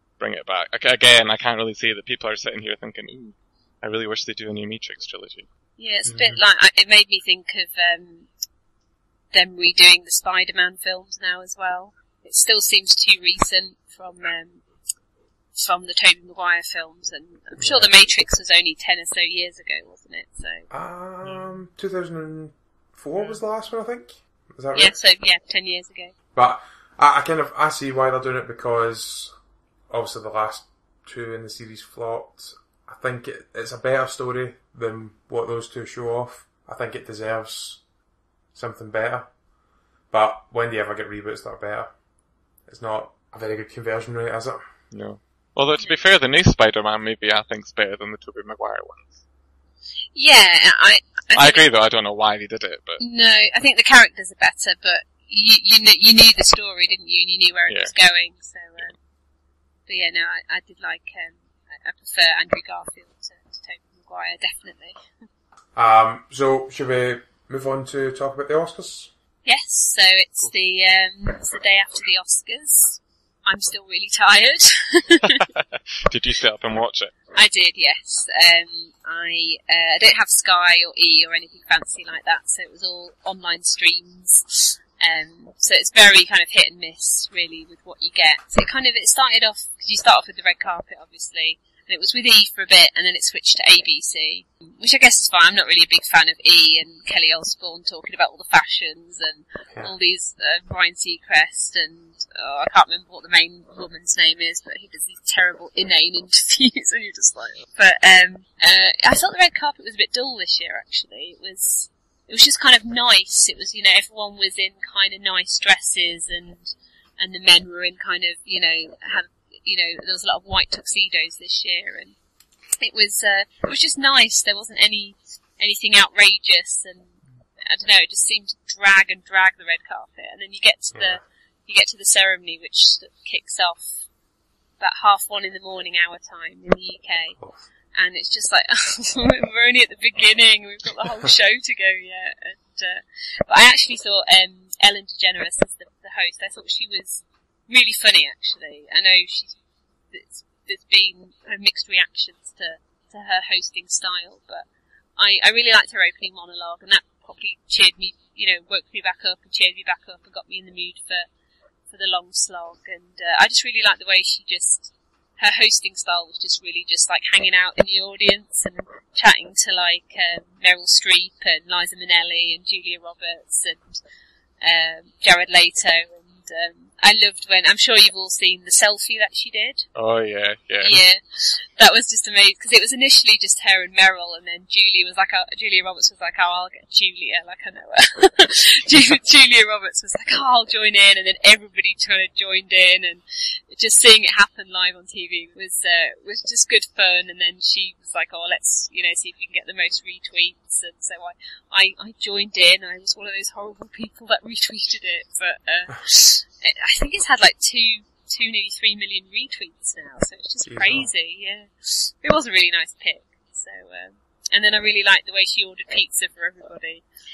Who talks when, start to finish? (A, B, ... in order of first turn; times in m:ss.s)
0:00.2-0:05.5 A
0:05.8-0:08.3 B
0:06.1-0:06.4 C
0:09.3-0:14.6 B
0:15.6-0:20.7 B
0:17.6-0:17.9 C
0:20.7-0:25.0 C
0:24.7-0:26.1 B
0:26.4-0:29.3 C
0:29.9-0:37.8 C
0:38.6-0:39.3 C
0:40.1-0:41.9 C
0:42.7-0:44.6 C
0:44.9-0:49.2 A
0:50.1-0:51.6 B
0:51.3-0:53.0 A
0:53.0-0:58.9 B
0:59.9-1:05.0 B
1:05.8-1:09.1 C
1:09.4-1:15.5 B
1:15.5-1:17.1 A
1:17.3-2:02.2 B
2:02.8-2:13.9 B
2:10.9-2:11.2 C
2:14.8-2:17.4 B
2:18.0-2:29.6 B
2:30.1-2:34.7 B
2:35.2-2:41.3 B
2:41.9-2:54.0 B
2:54.6-2:59.9 B
3:00.0-3:01.0 A
3:00.8-3:37.0 B
3:30.7-3:31.1 C